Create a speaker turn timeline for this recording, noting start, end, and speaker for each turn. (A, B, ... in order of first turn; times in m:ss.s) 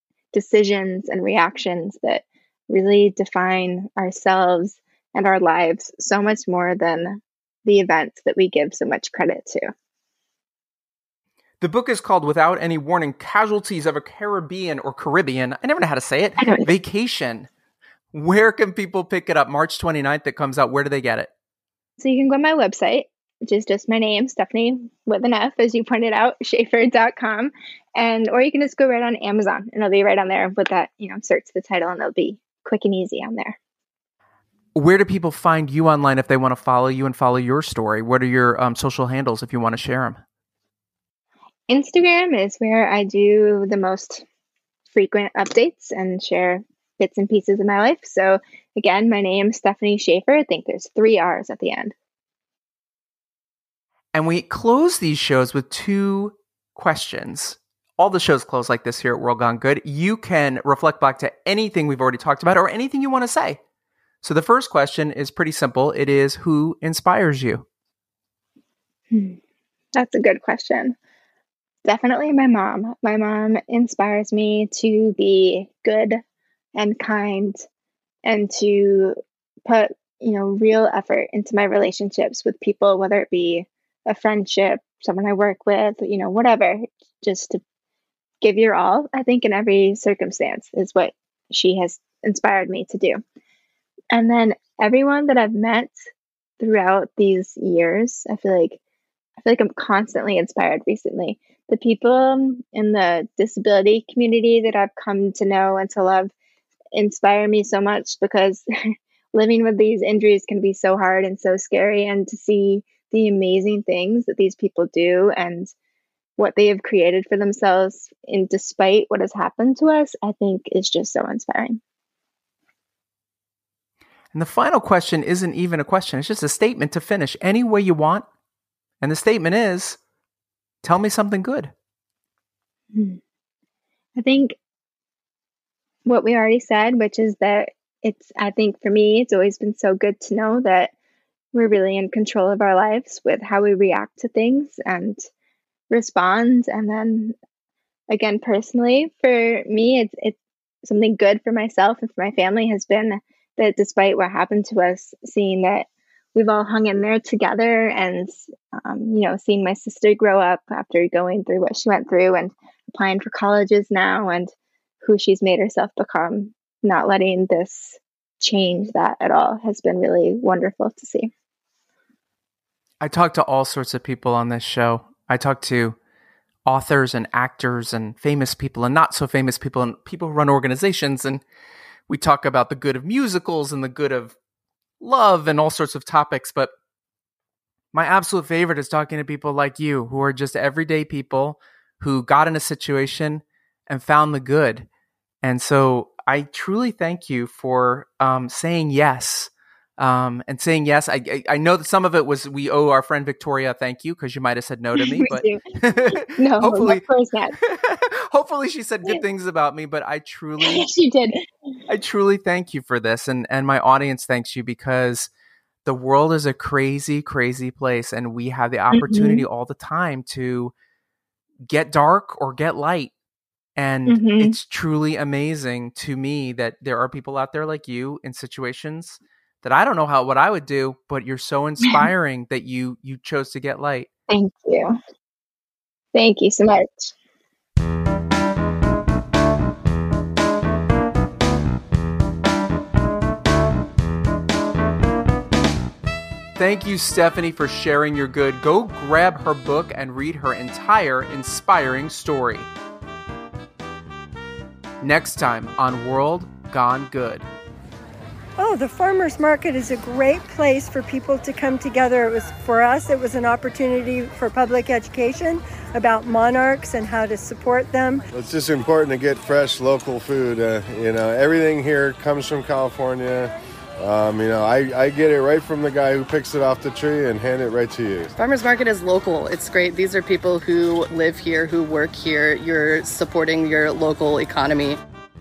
0:00.3-0:09.7 A
0:11.6-0:17.5 B
0:16.4-0:16.7 A
0:18.1-0:21.3 B
0:22.0-0:33.6 A
0:34.7-0:40.2 B
0:41.7-0:44.2 A
0:44.9-0:51.9 A
0:54.1-1:03.6 B
1:04.2-1:07.6 B
1:09.1-1:09.4 A
1:10.0-1:11.0 A
1:11.8-1:16.2 A
1:16.8-1:17.6 A
1:18.2-1:27.6 A
1:28.4-1:33.2 A
1:34.1-1:35.9 A
1:36.6-1:38.8 A
1:39.4-1:46.3 A
1:46.9-1:48.6 A
1:49.3-1:55.7 A
1:56.4-2:01.8 A
2:04.3-2:08.2 B
2:09.0-2:10.0 B
2:10.8-2:11.7 B
2:12.9-2:13.2 A
2:14.2-2:14.6 A
2:16.0-2:20.9 A
2:21.5-2:25.2 A
2:25.9-2:27.3 A
2:28.1-2:51.3 A
2:53.0-2:56.0 B
2:56.6-3:01.4 B
3:02.1-3:04.3 B
3:05.0-3:06.7 B
3:07.9-3:14.9 B
3:15.4-3:27.0 B
3:25.0-3:25.6 A
3:26.1-3:27.6 A
3:27.6-3:30.8 B
3:30.6-3:31.4 A
3:31.9-3:35.3 B
3:35.8-3:40.7 B
3:38.9-3:39.4 A
3:41.7-3:43.1 B
3:43.8-3:54.1 B
3:44.1-3:44.6 A
3:54.3-3:55.0 A
3:56.1-3:57.1 A
4:06.6-4:12.7 B
4:15.0-4:17.4 B
4:18.6-4:28.2 C
4:28.3-4:38.3 D
4:38.4-4:45.0 E